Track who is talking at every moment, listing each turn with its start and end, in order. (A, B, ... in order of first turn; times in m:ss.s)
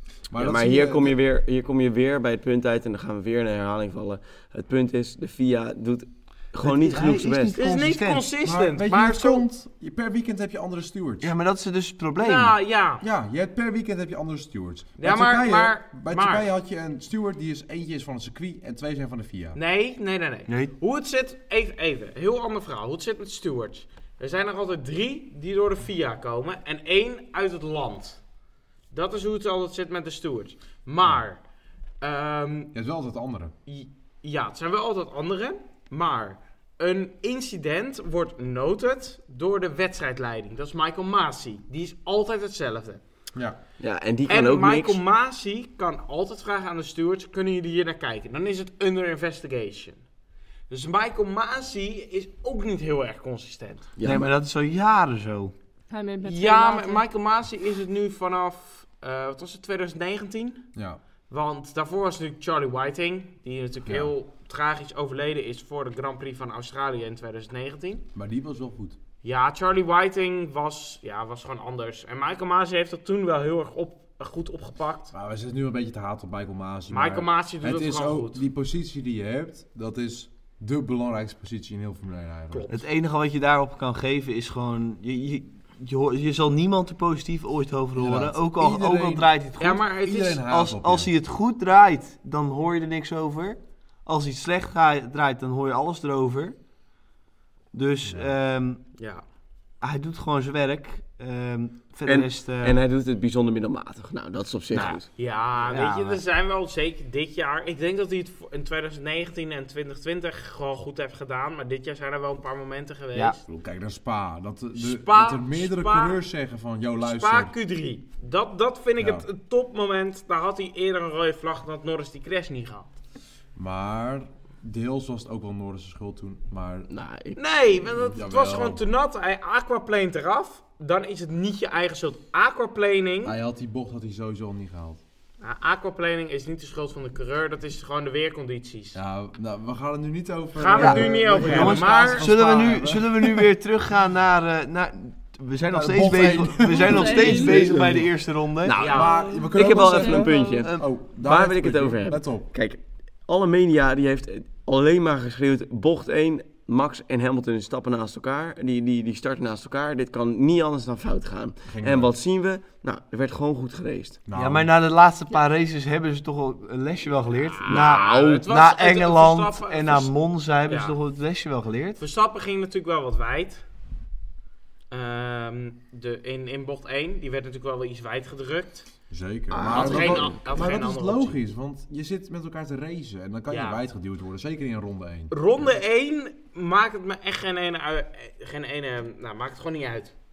0:00.3-0:01.2 A
0:00.4-0:07.5 B
0:06.6-0:08.2 C
0:07.5-0:09.4 D
0:08.4-0:11.3 A
0:11.2-0:12.5 C
0:12.2-0:13.0 D
0:13.0-0:19.6 A
0:15.0-0:16.5 D
0:19.5-0:28.2 D
0:20.5-0:20.7 C
0:28.9-0:31.4 D
0:32.0-0:32.7 D
0:32.7-0:33.5 A
0:33.7-0:43.0 D
0:43.3-0:43.6 A
0:43.8-0:45.0 B
0:44.3-0:50.0 D
0:50.7-0:53.9 D
0:54.0-0:54.3 B
0:54.0-0:55.5 C
0:55.9-0:57.0 E
0:56.2-1:00.7 D
1:00.7-1:01.0 A
1:01.3-1:08.0 D
1:03.8-1:04.1 A
1:08.1-1:09.0 A
1:09.2-1:15.1 D
1:15.1-1:22.7 A
1:16.9-1:18.4 D
1:22.5-1:22.8 D
1:22.7-1:36.6 C
1:28.0-1:29.3 A
1:29.6-1:30.4 D
1:29.9-1:31.1 A
1:37.7-1:38.8 C
1:38.0-1:38.3 A
1:39.0-1:39.2 D
1:39.8-1:42.8 C
1:42.0-1:45.1 B
1:44.7-1:45.0 C
1:45.2-1:53.4 D
1:45.6-1:46.2 C
1:53.5-1:57.5 A
1:54.7-1:56.2 D
1:57.0-2:02.9 D
1:59.0-1:59.2 A
2:03.6-2:06.9 A
2:06.9-2:07.4 B
2:07.3-2:13.4 D
2:07.8-2:08.8 A
2:13.2-2:15.0 A
2:15.4-2:19.0 D
2:18.9-2:23.5 A
2:20.6-2:22.3 D
2:20.7-2:28.8 C
2:25.7-2:28.1 A
2:26.7-2:27.8 E
2:28.6-2:44.2 B
2:28.7-2:29.2 D
2:28.8-2:32.5 A
2:28.9-2:30.7 E
2:41.6-2:42.1 A
2:44.2-2:44.7 A
2:44.3-2:52.0 C
2:47.3-2:50.1 D
2:50.7-2:51.0 D
2:52.0-2:53.6 D
2:54.9-2:58.9 D
2:59.1-3:05.3 A
2:59.5-3:00.4 B
2:59.6-3:01.4 D
3:03.5-3:03.8 D
3:05.3-3:10.1 D